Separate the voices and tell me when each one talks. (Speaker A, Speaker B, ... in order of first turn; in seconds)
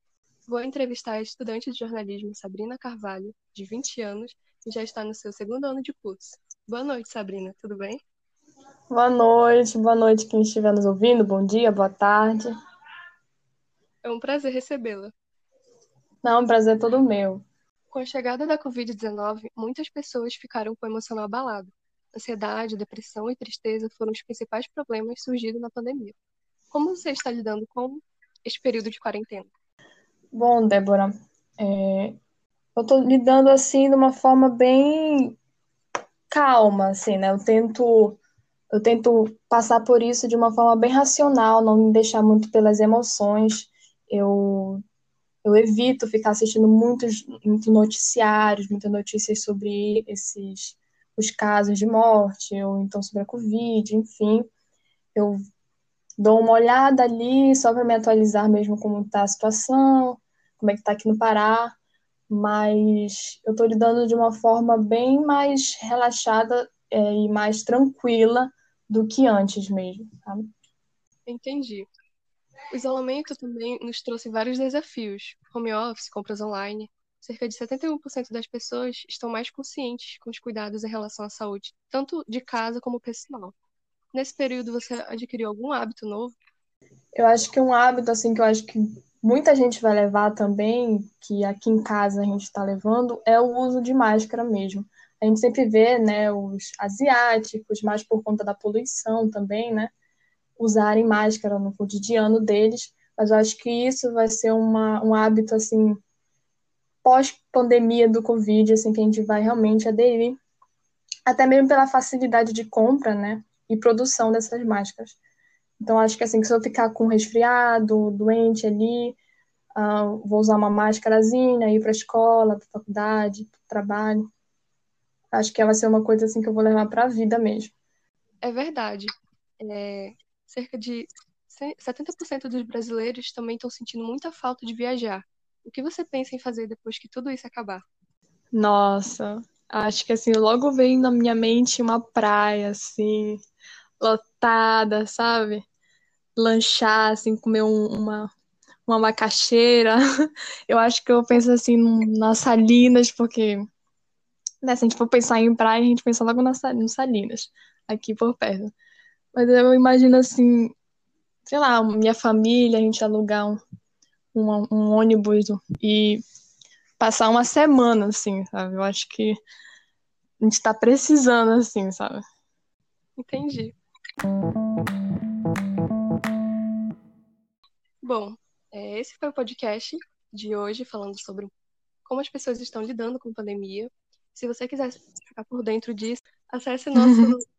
Speaker A: 0.5-8.0, 14.0-15.1, 17.9-26.1, 26.7-29.5, 71.3-71.9, 72.7-83.5, 84.1-86.3, 128.4-137.8, 173.2-173.8, 178.0-181.5, 182.0-187.4
Speaker B: 8.9-12.5, 16.2-17.4, 30.3-32.2, 32.8-35.4, 36.3-38.2, 38.7-44.8, 45.4-54.5, 55.1-55.4, 56.2-61.8, 62.3-70.5, 87.2-99.9, 100.6-106.0, 107.0-110.4, 111.2-115.2, 115.8-119.2, 119.7-124.2, 125.3-127.7, 138.5-143.4, 144.0-145.6, 146.3-148.3, 148.9-150.0, 150.7-153.7, 154.6-158.7, 159.3-160.7, 161.4-163.6, 164.3-166.2, 167.0-169.4, 170.4-172.2, 186.9-187.3